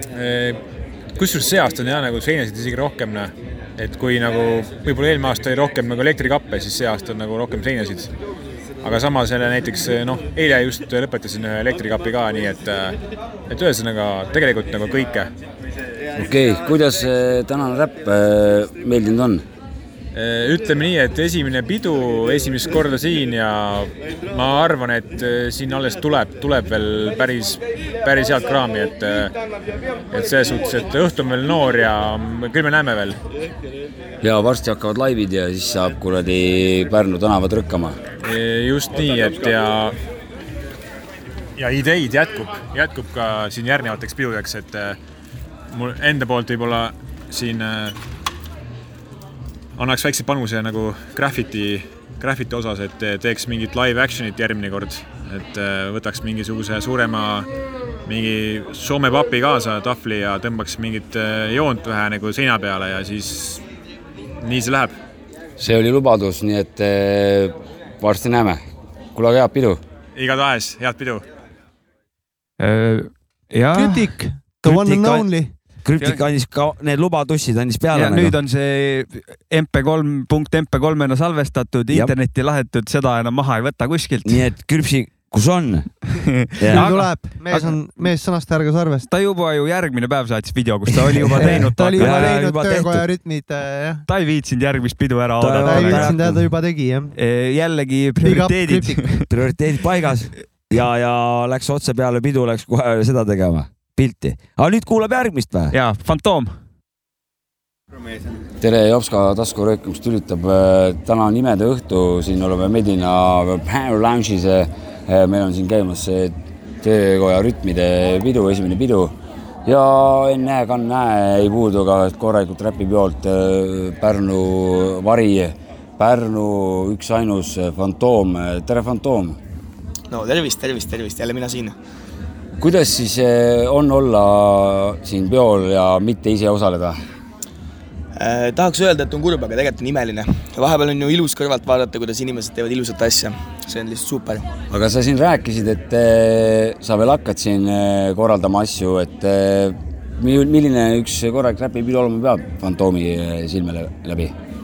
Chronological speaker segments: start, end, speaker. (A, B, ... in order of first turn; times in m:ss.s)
0:00.1-0:00.6 A
0:01.2-0:08.1 A
0:08.8-0:13.0 A
0:13.5-0:15.3 A
0:16.2-0:19.4 B
0:20.1-0:29.3 A
0:30.1-0:33.2 A
0:34.2-0:38.0 B
0:38.2-0:39.9 A
0:41.6-0:45.0 A
0:45.7-0:47.9 A
0:49.8-0:57.5 A
0:58.0-1:03.6 A
1:04.4-1:04.9 A
1:05.6-1:08.6 B
1:09.1-1:09.8 B
1:10.1-1:11.2 A
1:12.6-1:14.1 C
1:13.7-1:15.5 D
1:14.6-1:15.3 E
1:15.8-1:18.3 E
1:17.9-1:24.4 C
1:24.2-1:25.9 E
1:26.1-1:27.7 C
1:26.6-1:26.9 E
1:26.7-1:29.1 D
1:29.1-1:32.4 C
1:31.2-1:33.0 E
1:31.4-1:34.0 D
1:34.1-1:36.3 C
1:35.4-1:36.4 E
1:35.6-1:37.1 D
1:37.2-1:39.2 C
1:38.2-1:39.0 D
1:39.3-1:45.7 E
1:45.7-1:46.5 C
1:48.6-2:09.4 B
2:10.1-2:11.8 F
2:12.6-2:17.0 B
2:18.1-2:24.4 F
2:24.7-2:34.3 B